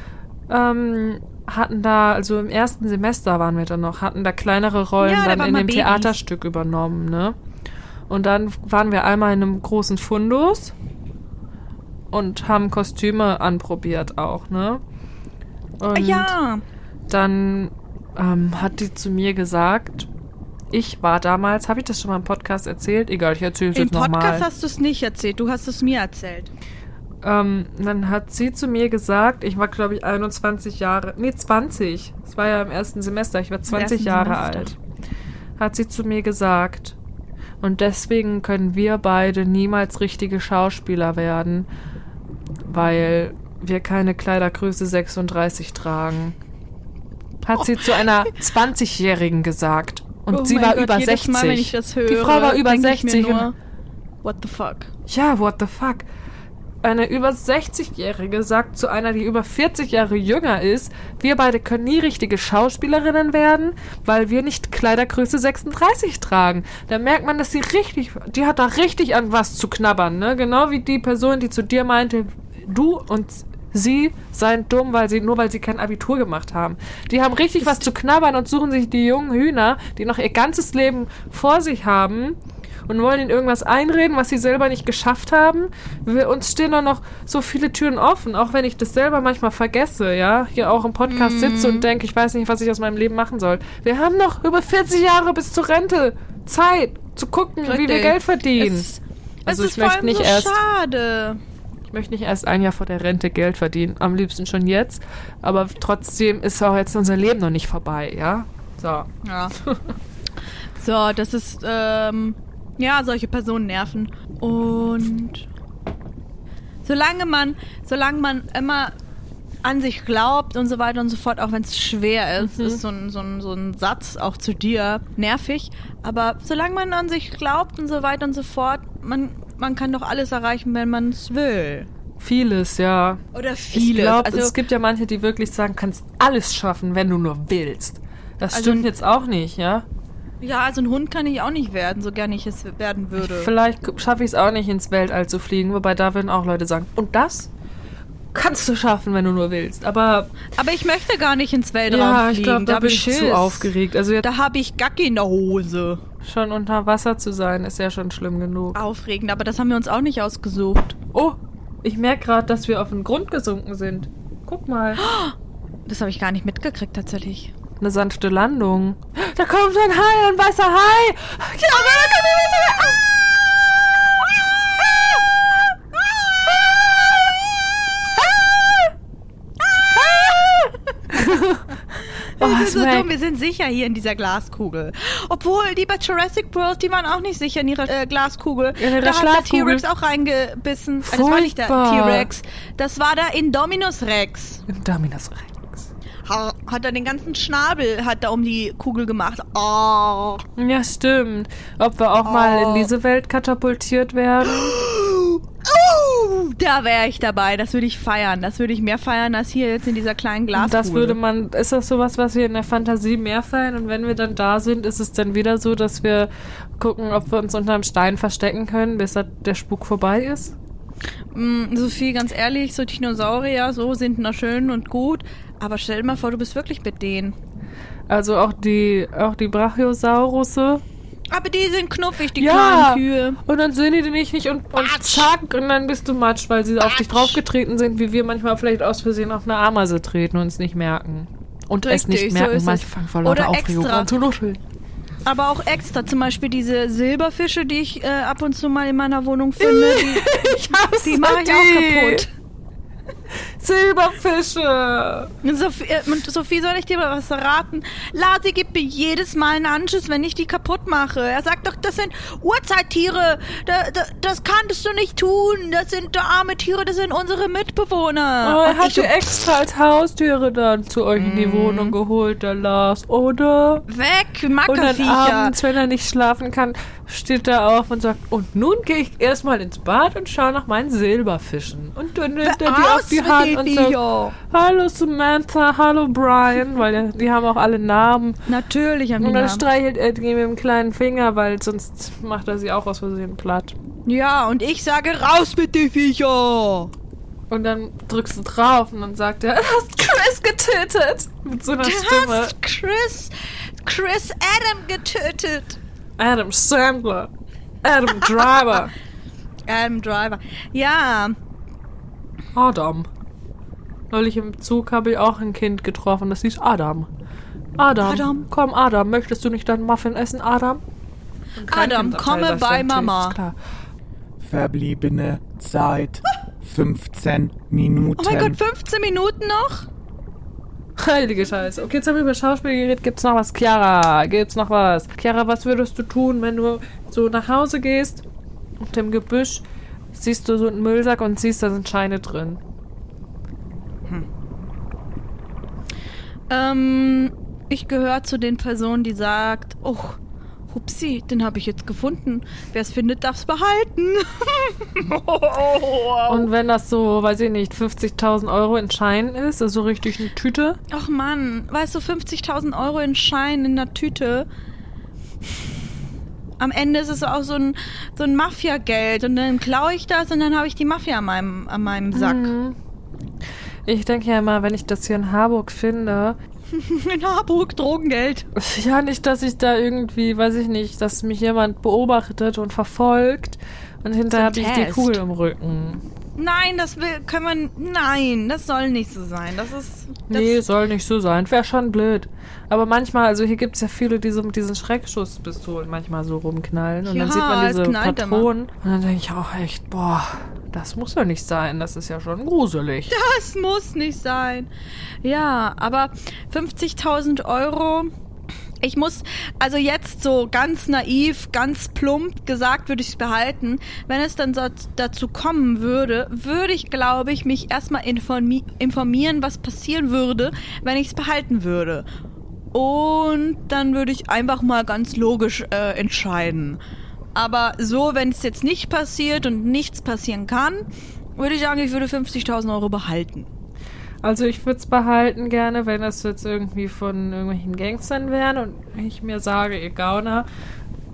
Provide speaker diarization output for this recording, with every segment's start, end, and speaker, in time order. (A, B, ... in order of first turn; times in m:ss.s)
0:00.5-0:07.4 A
0:05.0-0:06.1 B
0:08.1-0:10.7 A
0:12.1-0:14.8 A
0:15.8-0:16.3 A
0:15.9-0:16.6 B
0:17.1-0:20.1 A
0:20.7-0:24.5 A
0:23.7-0:26.5 B
0:27.2-0:34.8 A
0:33.7-0:34.7 B
0:35.6-0:37.0 A
0:37.6-0:41.7 A
0:42.6-0:46.3 A
0:47.4-0:53.5 A
0:50.3-0:53.5 B
0:54.2-0:54.9 B
0:55.1-0:56.0 A
0:56.8-1:22.4 A
1:22.9-1:38.9 A
1:31.1-1:31.9 B
1:37.6-1:41.4 B
1:39.4-1:40.6 A
1:41.9-1:49.9 A
1:49.2-1:49.5 B
1:50.8-1:55.4 B
1:56.8-1:58.9 B
1:59.6-2:11.9 B
2:02.4-2:02.8 A
2:12.2-2:13.2 A
2:13.3-2:14.5 B
2:13.7-2:19.8 A
2:18.5-2:18.9 B
2:20.4-2:23.5 B
2:23.2-2:27.5 A
2:28.3-2:30.3 A
2:30.5-2:36.0 B
2:31.9-2:34.2 A
2:36.2-2:38.8 A
2:38.7-2:41.0 B
2:41.1-2:45.0 A
2:45.0-2:45.3 B
2:45.8-2:47.5 B
2:47.8-2:53.0 A
2:51.6-2:53.1 B
2:54.2-2:55.2 B
2:55.9-2:58.9 B
2:59.6-3:01.1 B
3:01.1-3:01.7 A
3:02.0-3:14.6 B
3:02.4-3:03.1 A
3:08.8-3:09.8 A
3:11.0-3:12.3 A
3:14.7-3:15.9 A
3:16.2-3:20.4 B
3:20.6-3:24.7 A
3:22.2-3:22.9 B
3:24.4-3:31.2 B
3:30.5-3:40.5 A
3:41.3-3:47.4 B
3:48.1-3:50.8 A
3:51.3-3:53.4 B
3:52.4-4:04.6 A
3:54.8-3:55.3 B
3:56.8-3:57.4 B
4:01.8-4:04.1 B
4:05.2-4:12.3 B
4:09.6-4:12.2 A
4:13.6-4:15.3 A
4:15.4-4:29.1 B
4:28.4-4:33.8 A
4:31.2-4:31.9 B
4:33.9-4:35.6 B
4:34.7-4:44.0 A
4:42.4-4:44.4 B
4:44.5-4:48.4 A
4:48.5-4:49.6 B
4:49.2-4:53.7 A
4:54.0-4:56.9 B
4:57.5-5:02.5 A
5:01.8-5:05.8 B
5:06.2-5:07.3 A
5:07.8-5:08.9 A
5:09.7-5:11.4 B
5:12.5-5:13.1 A
5:14.1-5:17.1 A
5:17.8-5:20.8 A
5:18.0-5:18.4 B
5:21.6-5:23.5 A
5:21.7-5:23.4 B
5:24.4-5:28.6 C
5:28.2-5:29.9 B
5:31.0-5:38.2 A
5:38.8-5:42.6 A
5:46.5-5:50.2 B
5:50.7-5:56.5 B
5:56.3-6:00.8 A
6:00.9-6:04.5 B
6:06.6-6:12.5 B
6:12.1-6:12.8 A
6:13.8-6:16.4 A
6:16.7-6:18.5 B
6:18.6-6:26.0 A
6:24.3-6:25.2 B
6:26.4-6:30.6 B
6:30.3-6:43.1 A
6:37.0-6:38.5 B
6:43.1-6:44.7 B
6:45.2-6:48.1 B
6:48.8-7:02.0 B
7:02.7-7:06.8 B
7:07.3-7:13.5 B
7:14.2-7:20.5 A